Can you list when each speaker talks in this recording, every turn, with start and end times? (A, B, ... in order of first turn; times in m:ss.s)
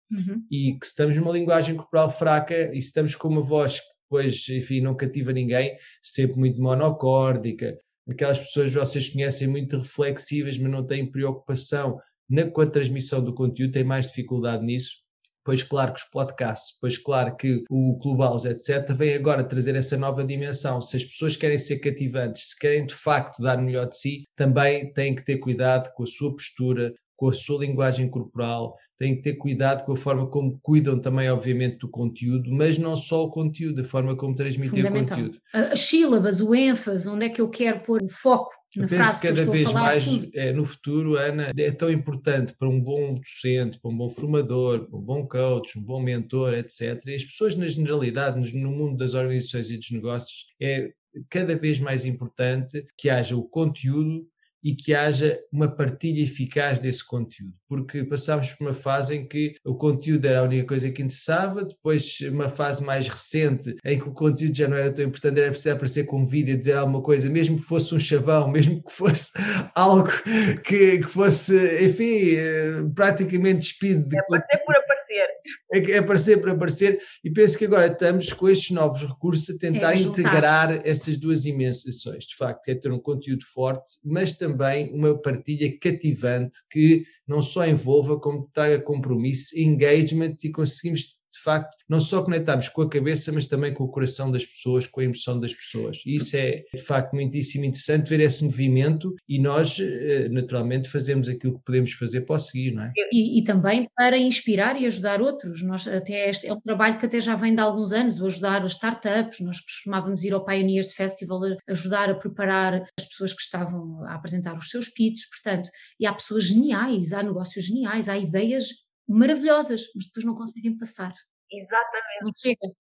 0:00.1-0:00.4 A
0:00.5-0:35.4 B
0:34.6-0:40.3 A
0:38.8-1:14.7 B
1:14.1-1:15.4 C
1:15.7-1:42.9 B
1:19.7-1:20.5 A
1:43.1-2:01.2 A
2:01.5-2:02.3 C
2:02.2-2:02.7 A